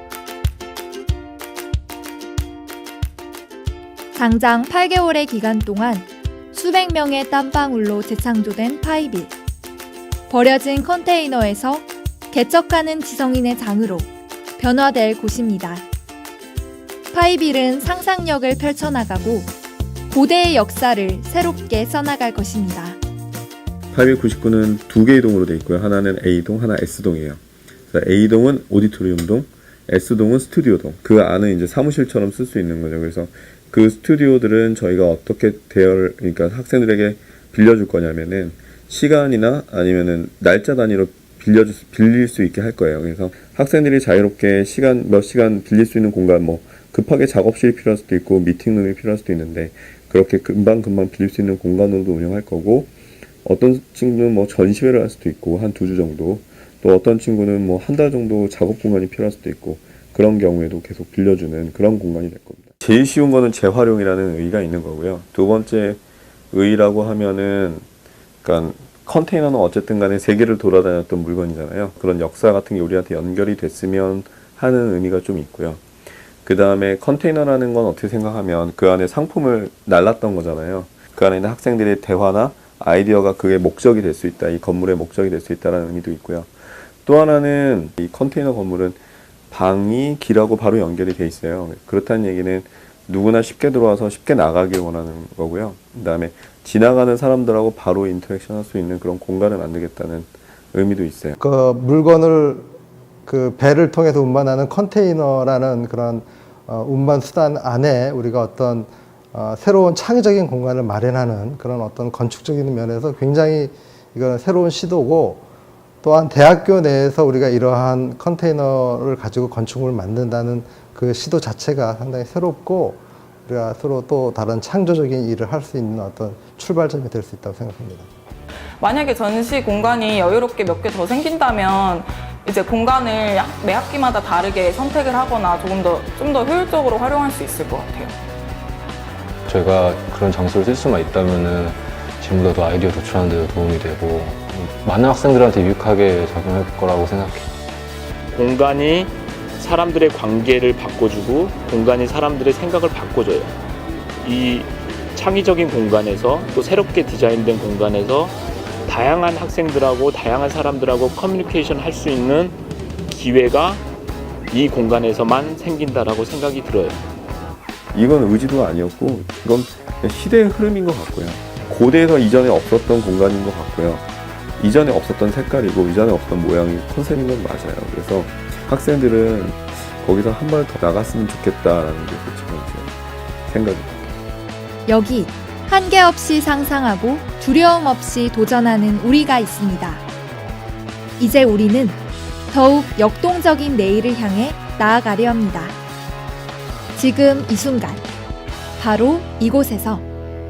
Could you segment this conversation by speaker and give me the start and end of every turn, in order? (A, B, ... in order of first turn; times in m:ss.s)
0:04.2-0:09.3 A
0:10.3-0:15.8 A
0:17.1-0:19.5 A
0:20.1-0:23.0 A
0:23.9-0:27.4 B
0:27.9-0:52.9 B
0:53.4-1:06.0 B
1:06.5-1:07.9 B
1:08.4-1:15.8 B
1:16.4-1:26.5 B
1:27.0-1:29.0 B
1:29.5-1:41.4 B
1:41.4-1:42.7 C
1:43.3-1:55.4 C
1:56.0-2:08.1 C
2:08.8-2:18.2 D
2:19.5-2:27.5 E
2:28.3-2:33.6 F
2:34.2-2:38.3 F
2:38.9-2:42.6 F
2:43.1-2:43.8 F
2:44.5-2:47.0 F
2:47.9-2:54.1 B
2:54.6-3:02.9 B
3:03.5-3:04.0 B
3:04.9-3:10.0 A
3:11.2-3:12.0 A
3:12.5-3:15.8 A
3:17.0-3:18.0 A
3:18.8-3:20.1 A